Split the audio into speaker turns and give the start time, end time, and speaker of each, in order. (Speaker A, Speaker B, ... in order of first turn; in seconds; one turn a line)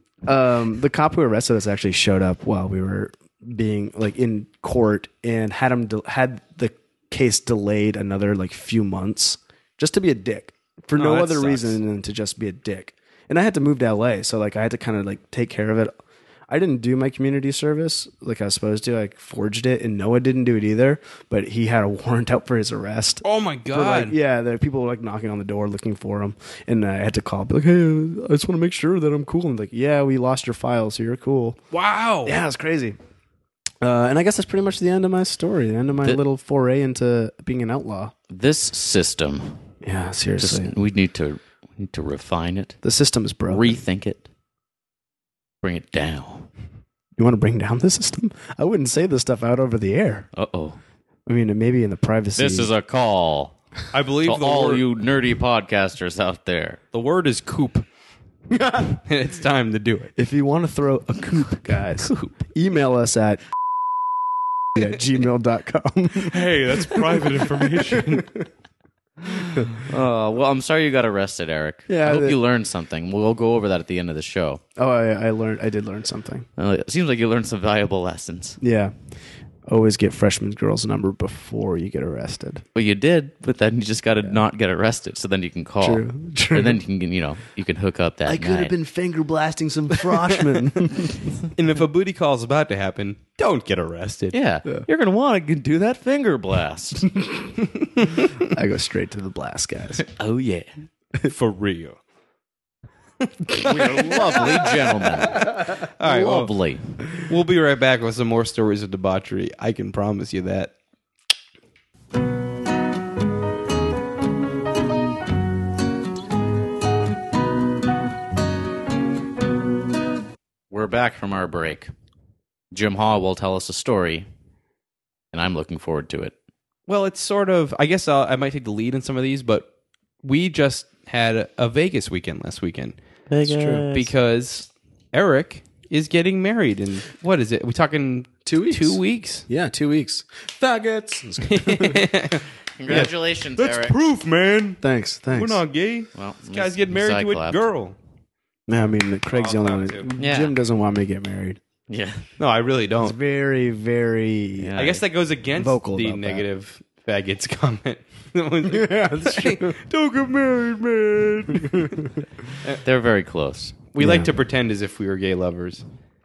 Speaker A: 0.2-15.9
Speaker B: 10.9-11.8
Speaker A: 16.5-31.6
Speaker B: 23.2-24.1
Speaker B: 31.7-32.4
Speaker A: 32.2-33.0
Speaker A: 33.8-38.1
Speaker C: 38.3-39.6
Speaker A: 39.8-40.7
Speaker C: 40.4-42.8
Speaker A: 42.8-43.8
Speaker C: 43.5-44.2
Speaker C: 45.6-46.5
Speaker A: 47.2-50.3
Speaker C: 50.3-50.8
Speaker A: 51.3-52.7
Speaker C: 52.4-53.5
Speaker B: 53.9-54.8
Speaker C: 54.2-56.8
Speaker B: 56.9-57.8
Speaker A: 58.5-58.9
Speaker B: 58.9-60.1
Speaker A: 60.2-63.4
Speaker B: 62.0-62.3
Speaker A: 64.8-68.5
Speaker B: 66.2-68.3
Speaker C: 69.5-74.6
Speaker A: 69.5-69.9
Speaker A: 71.9-72.4
Speaker A: 74.8-76.5
Speaker C: 76.6-78.6
Speaker A: 78.6-78.9
Speaker A: 79.7-82.6
Speaker C: 82.7-88.7
Speaker A: 85.8-86.8
Speaker A: 88.3-91.3
Speaker B: 90.1-90.6
Speaker B: 91.5-94.3
Speaker C: 94.3-97.1
Speaker A: 97.2-97.5
Speaker B: 97.6-98.5
Speaker A: 98.4-100.0
Speaker C: 100.0-100.7
Speaker B: 101.2-102.0
Speaker B: 103.2-106.5
Speaker C: 103.5-106.8
Speaker B: 107.2-110.7
Speaker C: 120.7-121.9
Speaker C: 122.7-124.3
Speaker C: 125.3-126.3
Speaker B: 126.9-129.7
Speaker B: 130.2-132.9
Speaker C: 133.3-134.1
Speaker A: 133.4-133.9
Speaker B: 133.9-139.4
Speaker A: 138.4-142.1
Speaker B: 141.4-144.8
Speaker C: 142.8-144.0
Speaker A: 144.8-145.6
Speaker B: 145.3-147.9
Speaker C: 146.1-147.6
Speaker A: 148.7-151.6
Speaker B: 149.3-150.1
Speaker C: 150.2-150.6
Speaker C: 151.9-152.2
Speaker B: 152.4-153.2
Speaker A: 153.0-154.8
Speaker C: 154.6-155.0
Speaker B: 154.8-162.0
Speaker A: 155.6-156.4
Speaker A: 158.7-159.9
Speaker A: 161.4-162.2
Speaker C: 162.8-163.8
Speaker B: 163.9-165.8
Speaker A: 164.0-164.3